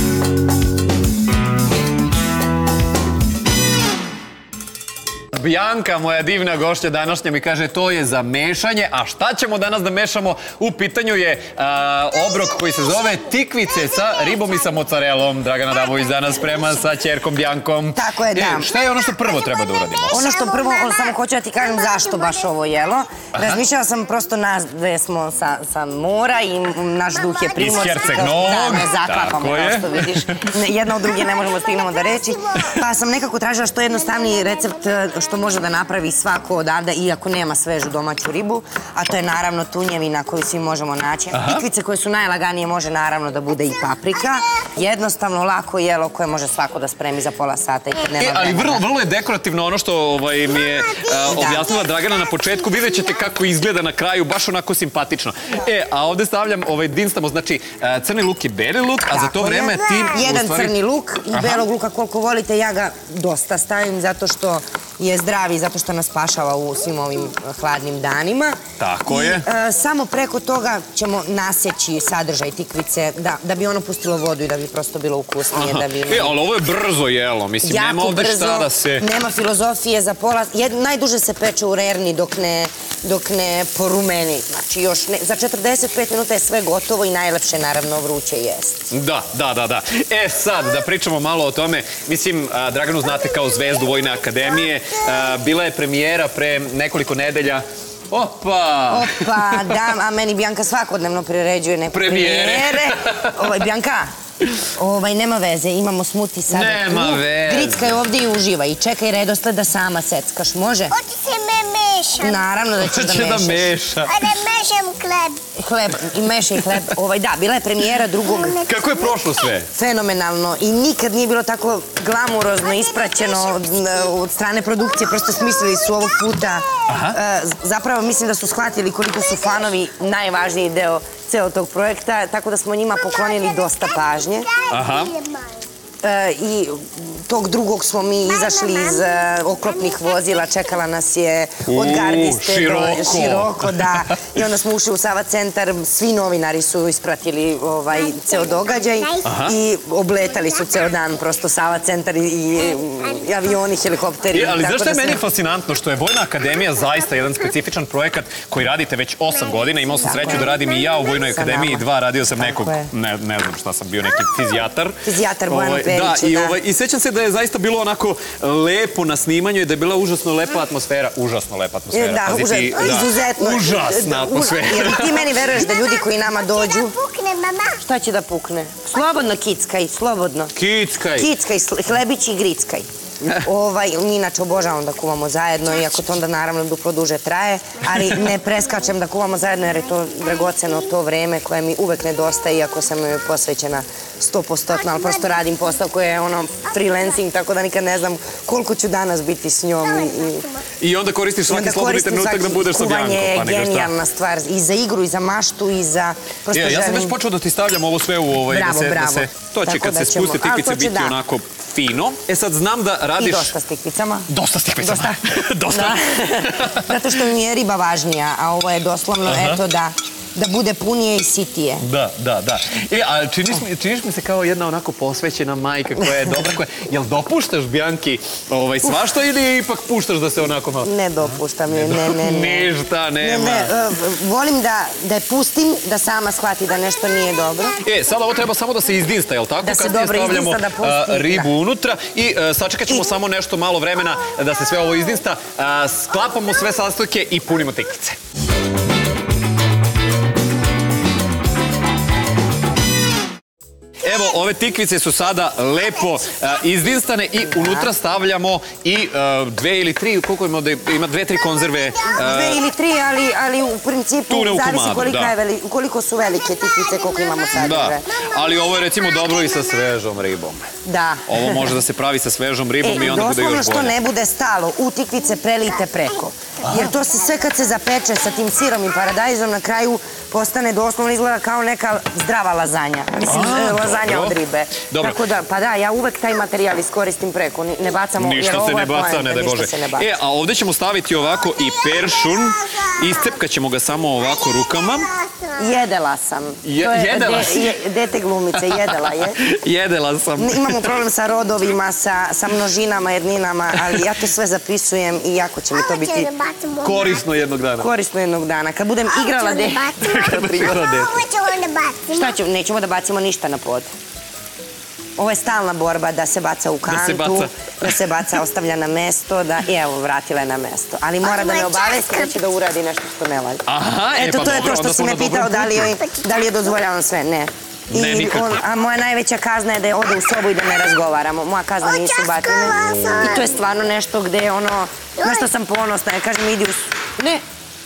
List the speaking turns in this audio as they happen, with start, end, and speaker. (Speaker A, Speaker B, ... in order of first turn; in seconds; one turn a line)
Speaker A: 5.3-20.3
Speaker B: 13.9-14.5
Speaker C: 17.9-18.7
Speaker B: 20.1-22.4
Speaker C: 20.1-48.9
Speaker A: 27.6-30.5
Speaker B: 31.3-32.7
Speaker B: 34.0-35.3
Speaker A: 41.3-41.6
Speaker A: 48.2-60.8
Speaker C: 51.3-51.8
Speaker C: 59.1-76.4
Speaker A: 61.3-61.6
Speaker A: 68.8-69.5
Speaker A: 75.5-79.1
Speaker C: 77.6-88.9
Speaker A: 88.9-99.8
Speaker C: 98.9-104.1
Speaker A: 101.9-103.4
Speaker C: 104.8-111.0
Speaker A: 106.5-108.0
Speaker B: 110.9-112.4
Speaker C: 112.2-113.7
Speaker A: 112.8-114.3
Speaker B: 114.1-115.5
Speaker C: 115.6-118.6
Speaker B: 118.5-119.1
Speaker A: 118.7-119.7
Speaker C: 119.7-134.5
Speaker B: 123.0-123.5
Speaker B: 125.5-125.9
Speaker A: 126.9-127.2
Speaker B: 133.2-135.7
Speaker A: 134.7-135.1
Speaker C: 136.0-155.2
Speaker B: 138.3-140.1
Speaker A: 141.7-144.2
Speaker B: 148.1-149.3
Speaker A: 149.2-149.6
Speaker A: 154.3-175.3
Speaker C: 160.0-161.9
Speaker B: 160.5-160.9
Speaker C: 162.4-162.9
Speaker C: 165.0-166.6
Speaker C: 171.9-177.0
Speaker B: 175.5-177.8
Speaker C: 177.8-180.5
Speaker A: 180.6-181.3
Speaker C: 181.2-200.5
Speaker B: 194.9-195.3
Speaker B: 200.0-200.7
Speaker A: 200.8-203.9
Speaker C: 201.5-207.2
Speaker A: 206.5-213.5
Speaker C: 208.5-211.2
Speaker C: 213.2-214.3
Speaker A: 214.3-217.0
Speaker C: 214.8-221.9
Speaker A: 219.3-219.6
Speaker A: 221.8-230.9
Speaker C: 230.8-237.8
Speaker A: 231.7-233.7
Speaker A: 237.8-248.2
Speaker C: 239.6-241.5
Speaker A: 254.0-262.6
Speaker C: 257.6-257.9
Speaker C: 262.1-268.1
Speaker A: 264.3-265.3
Speaker B: 266.8-267.4
Speaker A: 267.5-270.7
Speaker B: 268.1-269.8
Speaker C: 270.8-271.8
Speaker A: 271.3-273.9
Speaker C: 272.8-290.1
Speaker A: 276.6-276.9
Speaker A: 283.3-284.4
Speaker A: 284.9-285.2
Speaker A: 288.2-295.1
Speaker B: 291.7-293.1
Speaker B: 294.2-295.7
Speaker C: 295.6-299.4
Speaker A: 296.6-297.8
Speaker A: 298.6-300.9
Speaker C: 300.4-306.3
Speaker A: 303.8-304.1
Speaker B: 305.7-307.2
Speaker A: 306.8-307.9
Speaker C: 307.8-310.9
Speaker B: 309.1-312.4
Speaker A: 310.0-311.2
Speaker C: 312.1-313.9
Speaker C: 315.2-337.4
Speaker A: 316.9-318.0
Speaker B: 321.2-322.4
Speaker A: 323.7-326.0
Speaker B: 326.1-326.5
Speaker A: 327.9-328.6
Speaker B: 331.8-333.6
Speaker B: 335.2-335.5